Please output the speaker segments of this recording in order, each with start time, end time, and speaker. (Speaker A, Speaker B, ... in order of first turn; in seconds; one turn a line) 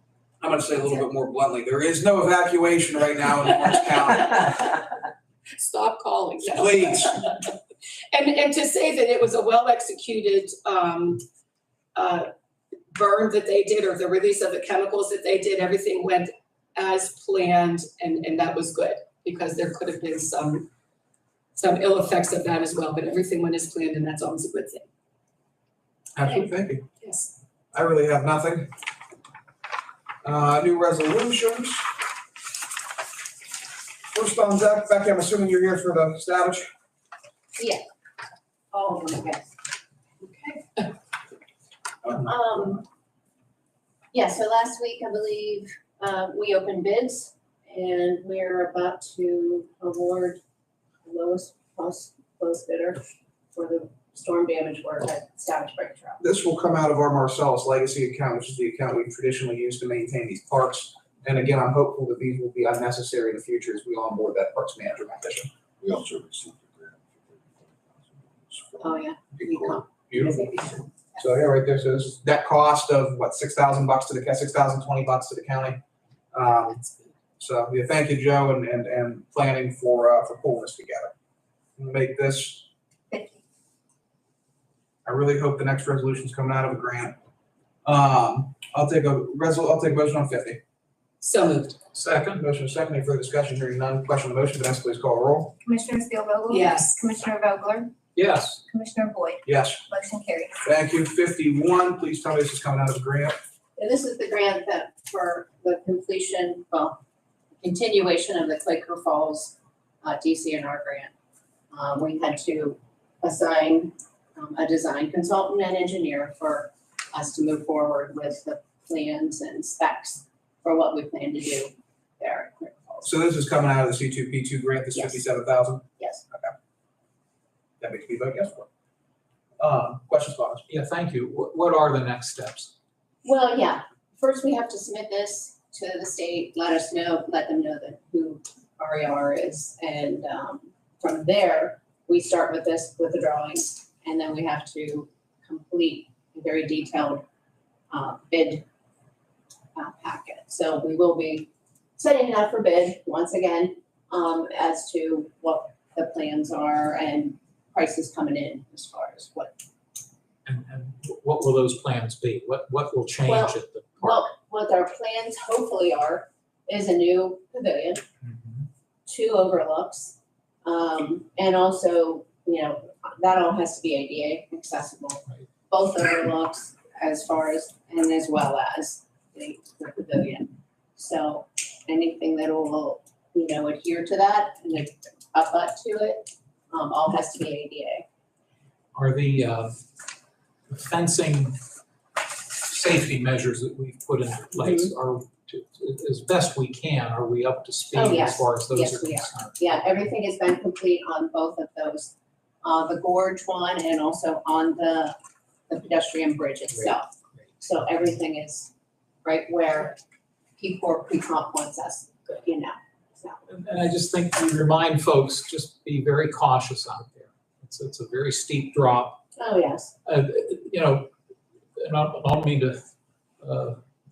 Speaker A: 0.4-4.5
Speaker B: 4.0-4.9
Speaker B: 5.5-7.5
Speaker A: 6.5-7.1
Speaker B: 8.1-11.2
Speaker B: 11.9-12.3
Speaker B: 12.9-20.7
Speaker B: 21.5-24.9
Speaker A: 26.1-26.9
Speaker B: 26.2-27.3
Speaker A: 27.7-28.7
Speaker A: 30.2-31.9
Speaker A: 34.1-36.7
Speaker C: 37.5-37.8
Speaker C: 38.7-39.5
Speaker B: 40.2-40.9
Speaker A: 42.0-42.3
Speaker C: 42.2-42.8
Speaker C: 44.1-50.4
Speaker C: 51.0-56.2
Speaker A: 56.2-65.5
Speaker D: 65.8-69.8
Speaker C: 68.8-71.2
Speaker A: 70.1-70.5
Speaker A: 71.2-75.8
Speaker A: 76.3-76.8
Speaker B: 76.7-77.1
Speaker A: 77.4-81.1
Speaker A: 81.8-82.7
Speaker E: 83.1-83.4
Speaker A: 85.0-87.2
Speaker A: 87.8-90.6
Speaker B: 91.2-91.8
Speaker F: 91.9-92.4
Speaker A: 92.3-95.5
Speaker E: 95.6-97.9
Speaker B: 96.5-97.0
Speaker F: 98.1-98.6
Speaker E: 98.7-100.5
Speaker A: 99.5-99.8
Speaker A: 100.6-103.4
Speaker C: 103.8-107.0
Speaker C: 107.6-111.1
Speaker C: 111.7-123.1
Speaker A: 123.0-126.5
Speaker C: 124.9-125.2
Speaker C: 126.0-126.2
Speaker A: 127.8-128.7
Speaker A: 129.6-130.6
Speaker F: 130.7-132.7
Speaker C: 133.2-147.2
Speaker C: 147.9-148.6
Speaker C: 149.7-159.6
Speaker F: 160.4-164.2
Speaker C: 163.2-168.0
Speaker F: 168.2-168.6
Speaker C: 169.1-188.0
Speaker F: 188.9-189.8
Speaker F: 190.7-191.6
Speaker F: 192.6-200.0
Speaker C: 194.6-194.9
Speaker C: 197.9-205.2
Speaker C: 205.7-208.7
Speaker C: 209.2-210.0
Speaker C: 210.6-213.4
Speaker F: 213.5-219.2
Speaker C: 219.4-219.9
Speaker F: 220.0-221.1
Speaker F: 221.8-222.8
Speaker F: 223.4-223.8